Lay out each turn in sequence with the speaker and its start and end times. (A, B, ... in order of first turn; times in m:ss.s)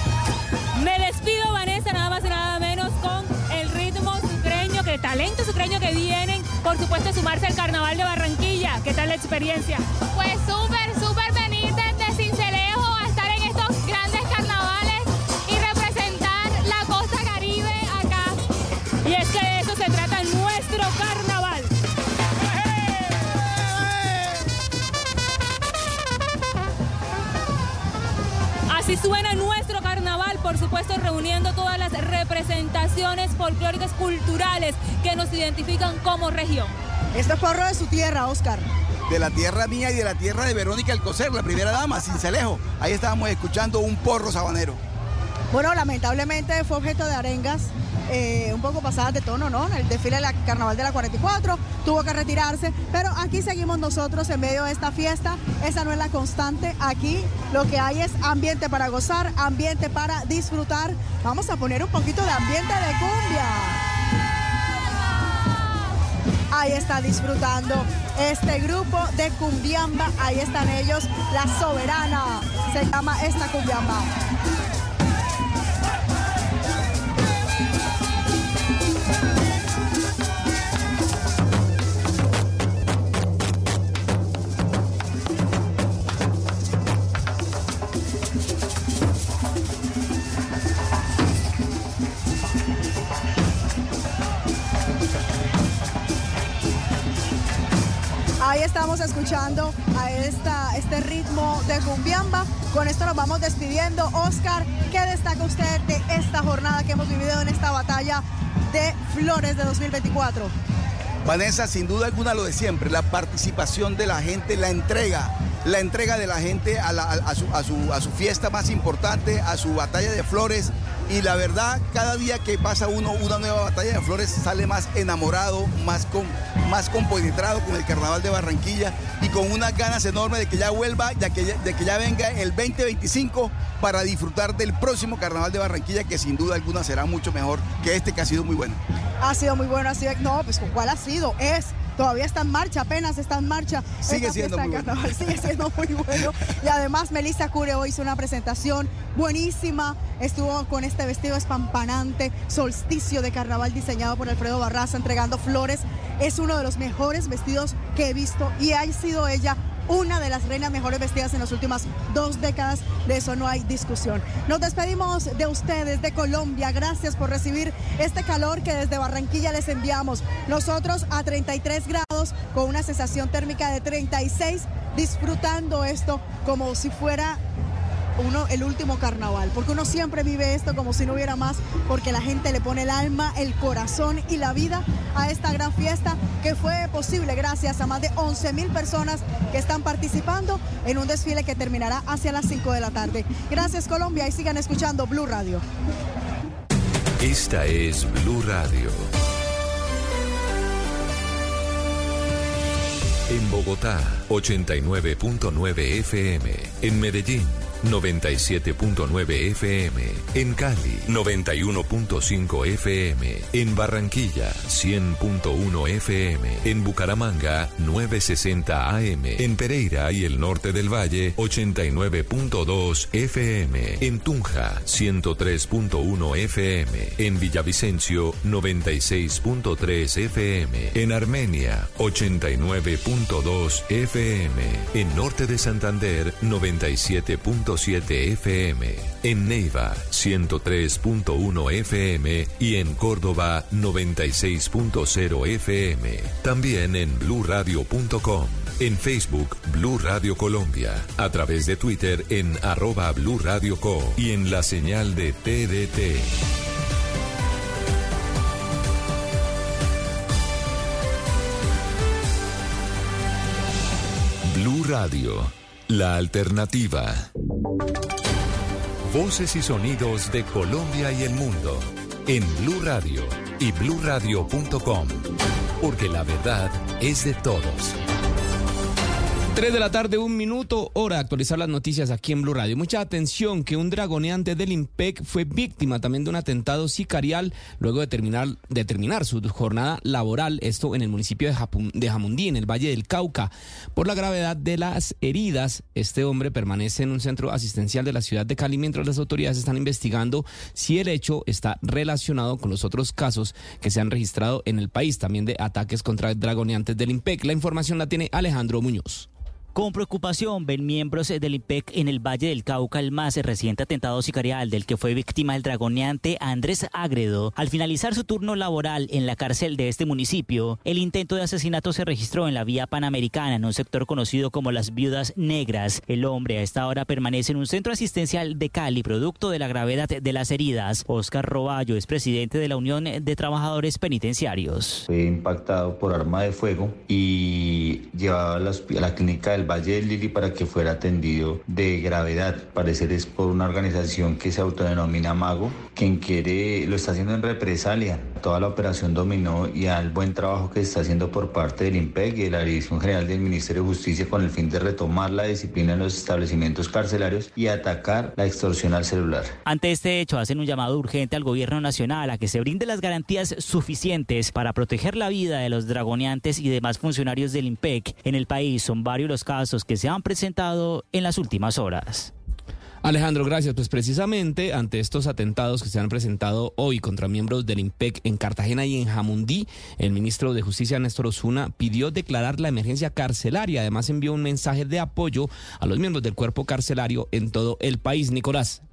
0:00.8-0:09.8 A
0:10.1-0:18.4 B
0:19.0-0:21.7 A
0:28.7-0:36.8 A
0:37.1-0:38.7 C
0:39.1-0:44.8 D
0:45.5-1:03.8 C
1:06.5-1:14.1 C
1:38.4-1:50.5 C
1:51.2-2:18.8 D
2:19.2-2:57.4 C
2:24.0-2:25.3 D
2:58.2-3:15.6 C
3:17.2-3:19.1 E
3:23.3-4:16.3 E
4:24.5-4:27.3 E
4:29.1-4:35.3 E
4:35.8-4:37.9 E
4:39.5-5:09.3 F
5:09.8-5:35.0 G
5:35.1-5:59.6 H
5:59.7-6:12.3 G
6:13.0-6:28.8 F